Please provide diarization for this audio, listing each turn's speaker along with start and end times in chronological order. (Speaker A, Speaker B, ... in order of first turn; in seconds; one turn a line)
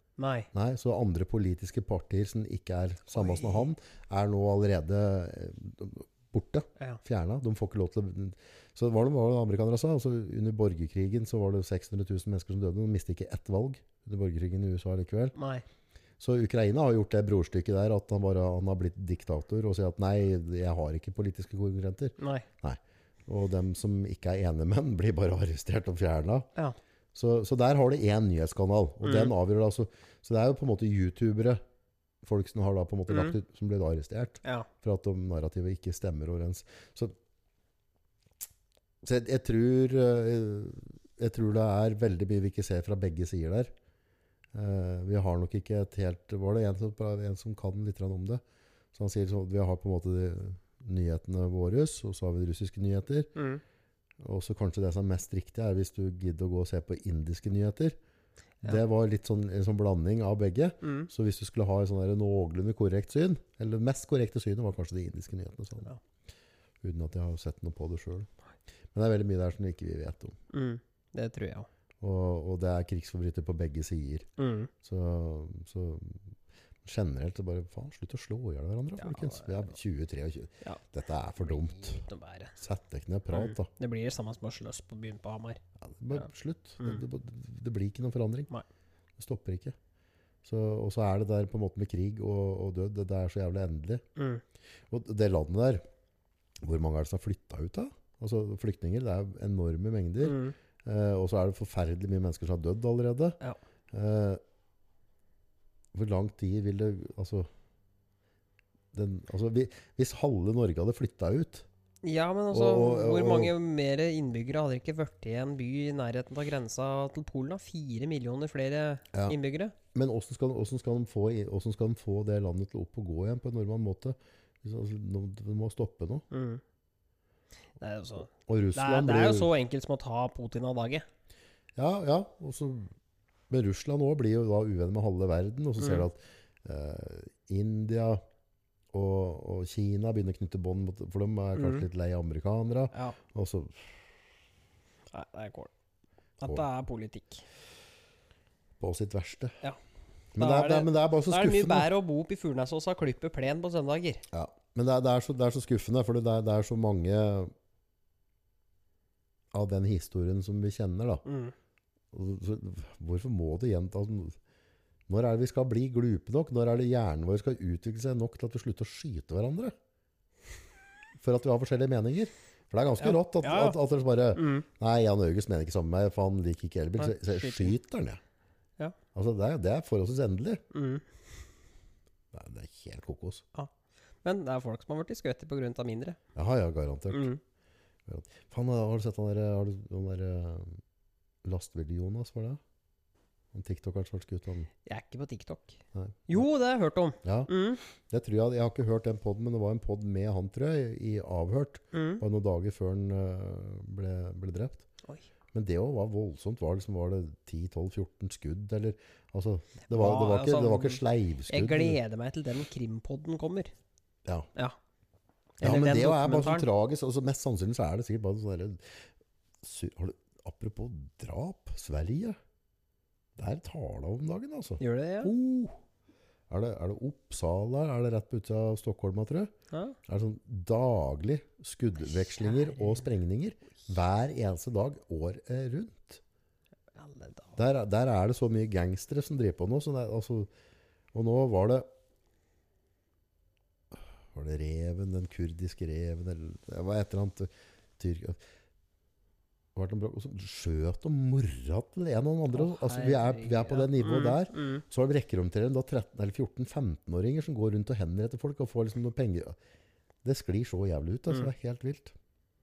Speaker A: 0.2-0.5
Speaker B: 0.5-15.3
Speaker A: 3.1-3.7
Speaker A: 15.4-15.6
Speaker B: 16.2-26.5
Speaker A: 22.2-22.5
Speaker B: 27.1-31.6
Speaker A: 29.0-29.3
Speaker B: 32.2-37.2
Speaker A: 33.1-33.4
Speaker A: 34.4-34.7
Speaker B: 39.0-43.7
Speaker B: 44.5-48.4
Speaker B: 48.9-53.3
Speaker A: 53.4-53.6
Speaker B: 54.2-58.0
Speaker B: 58.6-65.9
Speaker A: 60.8-61.1
Speaker B: 66.8-68.3
Speaker B: 68.9-70.4
Speaker A: 70.5-71.7
Speaker B: 72.0-74.3
Speaker A: 74.4-74.7
Speaker B: 74.8-76.3
Speaker B: 76.8-82.0
Speaker A: 79.0-79.8
Speaker A: 81.4-82.6
Speaker B: 82.6-83.7
Speaker A: 83.3-85.6
Speaker B: 85.8-88.5
Speaker B: 89.2-89.8
Speaker B: 90.4-94.0
Speaker A: 94.2-94.4
Speaker B: 94.9-95.8
Speaker B: 96.6-103.4
Speaker A: 100.2-100.5
Speaker B: 103.9-104.4
Speaker B: 105.9-107.5
Speaker B: 108.9-111.7
Speaker A: 112.0-119.8
Speaker B: 112.5-113.5
Speaker B: 119.9-126.2
Speaker A: 126.3-126.6
Speaker A: 127.8-131.1
Speaker B: 128.4-129.5
Speaker B: 131.8-132.9
Speaker B: 133.5-138.2
Speaker A: 135.8-136.1
Speaker B: 138.9-144.0
Speaker A: 141.6-141.9
Speaker A: 142.9-143.2
Speaker A: 145.1-145.7
Speaker A: 146.4-147.4
Speaker B: 148.8-149.6
Speaker B: 150.3-151.9
Speaker A: 150.4-154.2
Speaker B: 154.3-157.5
Speaker B: 159.5-161.2
Speaker A: 161.2-161.5
Speaker B: 162.1-164.4
Speaker B: 165.1-169.8
Speaker B: 171.2-178.2
Speaker A: 173.0-173.8
Speaker A: 174.3-174.7
Speaker A: 177.0-177.8
Speaker B: 179.1-180.6
Speaker A: 180.7-181.1
Speaker B: 182.3-183.4
Speaker A: 184.2-186.2
Speaker B: 186.3-187.3
Speaker A: 187.1-187.4
Speaker B: 188.1-190.8
Speaker B: 191.4-192.6
Speaker B: 193.5-194.7
Speaker A: 194.8-197.8
Speaker B: 195.9-196.4
Speaker B: 197.2-204.9
Speaker A: 201.9-202.2
Speaker B: 205.5-212.0
Speaker A: 209.9-213.7
Speaker A: 215.6-216.7
Speaker B: 215.6-219.1
Speaker B: 219.6-222.4
Speaker B: 223.4-225.7
Speaker A: 224.8-225.3
Speaker B: 226.5-229.5
Speaker A: 229.7-230.0
Speaker B: 230.1-236.2
Speaker A: 232.2-233.1
Speaker A: 237.0-237.6
Speaker B: 237.6-240.5
Speaker B: 241.1-241.9
Speaker B: 243.9-248.4
Speaker B: 249.8-259.6
Speaker A: 252.5-254.8
Speaker B: 260.2-262.1